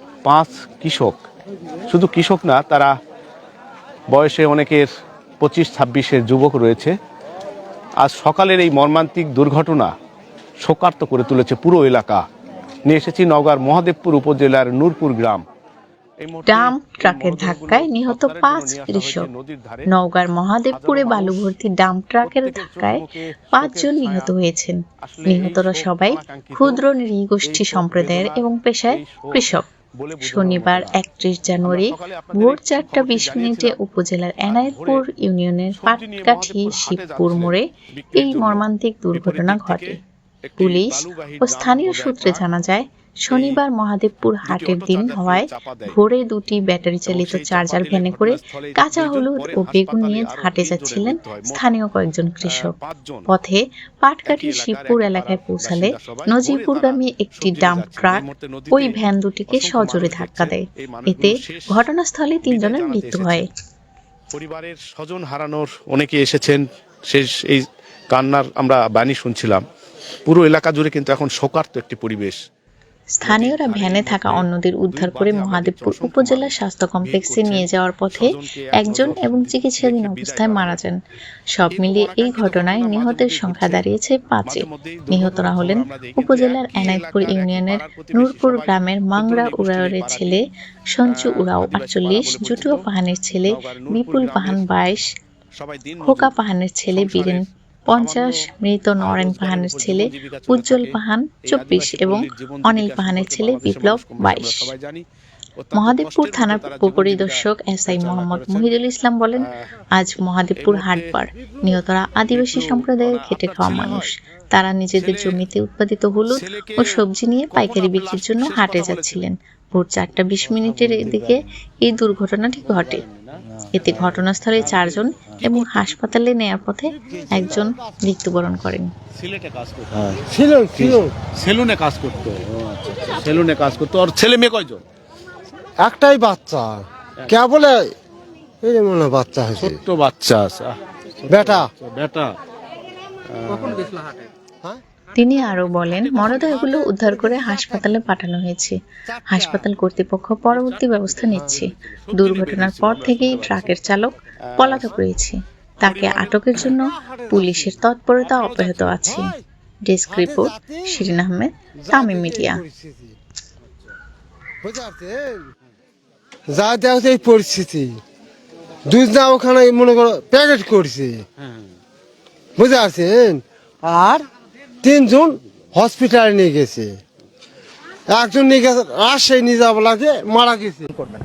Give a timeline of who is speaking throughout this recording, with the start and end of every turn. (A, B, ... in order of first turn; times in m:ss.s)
0:00.2-0:01.2 A
0:01.9-0:02.9 A
0:04.1-0:04.9 A
0:05.4-0:06.9 A
0:08.0-0:09.9 A
0:10.6-0:12.2 A
0:12.9-0:15.4 A
0:16.2-0:19.9 A
0:16.5-0:19.3 B
0:19.9-0:29.7 B
0:20.7-0:21.5 A
0:22.2-0:24.3 A
0:25.0-0:26.8 A
0:27.4-0:31.0 A
0:30.2-0:40.0 B
0:31.6-0:33.8 A
0:34.5-0:35.1 A
0:35.7-0:42.5 A
0:40.6-0:52.8 B
0:43.3-0:43.6 A
0:44.4-0:46.0 A
0:47.1-0:51.7 A
0:52.5-0:53.3 A
0:53.3-1:03.5 B
0:54.3-1:01.9 A
1:02.4-1:03.5 A
1:04.3-1:09.6 A
1:10.3-1:12.4 A
1:13.2-1:21.0 B
1:13.2-1:20.8 A
1:21.5-1:35.1 B
1:21.7-1:23.9 A
1:24.4-1:30.4 A
1:31.1-1:32.9 A
1:33.5-1:34.8 A
1:35.6-1:36.4 A
1:36.0-1:44.7 B
1:36.9-1:38.4 A
1:39.0-1:45.0 A
1:45.6-1:48.8 A
1:45.7-2:03.0 B
1:50.6-1:51.2 A
1:52.3-1:54.1 A
1:55.0-1:55.4 A
1:56.3-1:59.3 A
2:00.4-2:01.4 A
2:02.6-2:06.0 A
2:03.7-2:08.9 B
2:07.1-2:07.6 C
2:09.1-2:14.8 A
2:10.3-2:11.1 C
2:15.8-2:17.9 C
2:18.6-2:19.8 C
2:19.6-2:22.3 A
2:21.3-2:21.7 C
2:23.3-2:24.2 A
2:25.2-2:28.8 B
2:25.9-2:26.9 A
2:27.3-2:27.6 C
2:29.3-2:39.4 B
2:30.4-2:33.9 A
2:34.5-2:35.0 A
2:35.8-2:36.8 A
2:36.8-2:37.6 C
2:38.2-2:39.2 A
2:38.6-2:39.4 C
2:39.9-2:42.6 B
2:40.1-2:41.0 C
2:41.8-2:43.1 C
2:44.6-2:45.4 C
2:46.5-2:48.0 C
2:48.9-2:51.2 C
2:52.6-2:54.3 C
2:54.8-2:57.0 C
2:58.1-3:00.9 C